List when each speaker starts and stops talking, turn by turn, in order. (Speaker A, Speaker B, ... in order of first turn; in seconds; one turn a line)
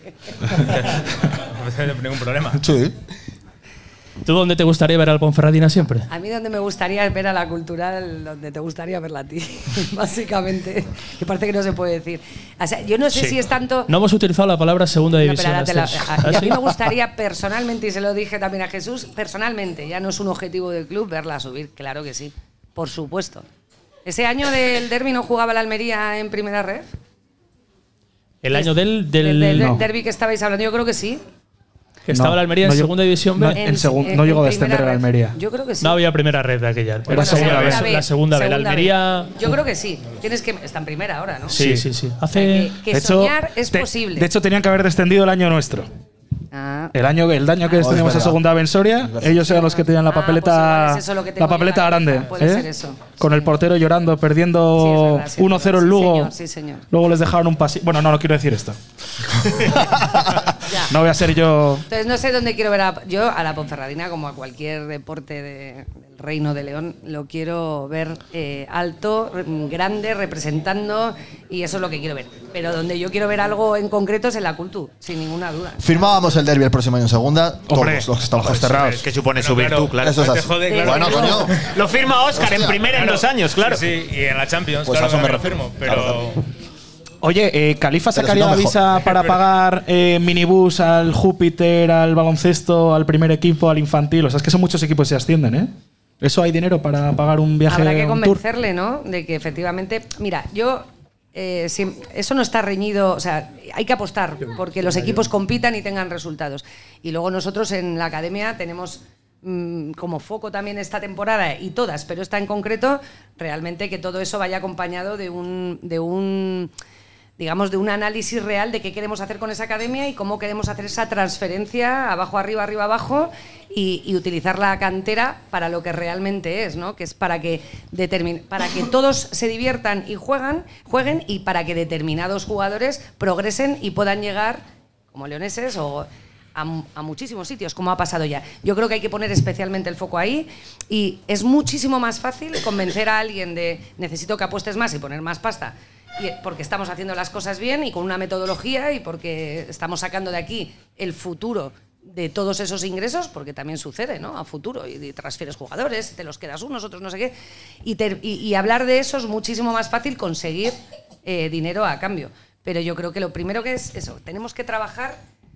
Speaker A: 0.6-2.6
Speaker B: 2.6-2.9
Speaker C: 4.2-6.1
Speaker D: 6.1-13.9
Speaker C: 13.1-16.5
Speaker D: 15.2-23.4
Speaker D: 24.1-26.9
Speaker C: 28.4-29.7
Speaker D: 28.5-31.2
Speaker E: 29.6-29.9
Speaker C: 32.1-33.6
Speaker E: 32.1-35.4
Speaker D: 33.6-36.0
Speaker C: 35.8-39.4
Speaker E: 37.1-37.9
Speaker D: 37.1-41.6
Speaker C: 41.5-42.7
Speaker E: 41.5-41.9
Speaker D: 42.3-44.3
Speaker E: 42.9-45.9
Speaker D: 46.5-46.9
Speaker E: 46.9-56.3
Speaker D: 47.7-48.0
Speaker B: 47.8-48.4
Speaker B: 49.0-49.3
Speaker D: 49.3-53.6
Speaker D: 54.7-56.9
Speaker E: 56.9-58.8
Speaker E: 59.4-61.9
Speaker D: 60.7-61.0
Speaker D: 61.9-75.8
Speaker B: 75.8-78.9
Speaker E: 77.7-79.0
Speaker F: 78.8-80.4
Speaker A: 79.3-81.7
Speaker B: 80.0-81.6
Speaker D: 80.6-81.5
Speaker F: 81.5-83.9
Speaker B: 82.4-82.9
Speaker A: 82.9-86.4
Speaker B: 84.8-86.3
Speaker E: 87.2-98.4
Speaker B: 88.1-88.8
Speaker A: 89.0-89.4
Speaker D: 97.7-116.7
Speaker D: 117.4-165.2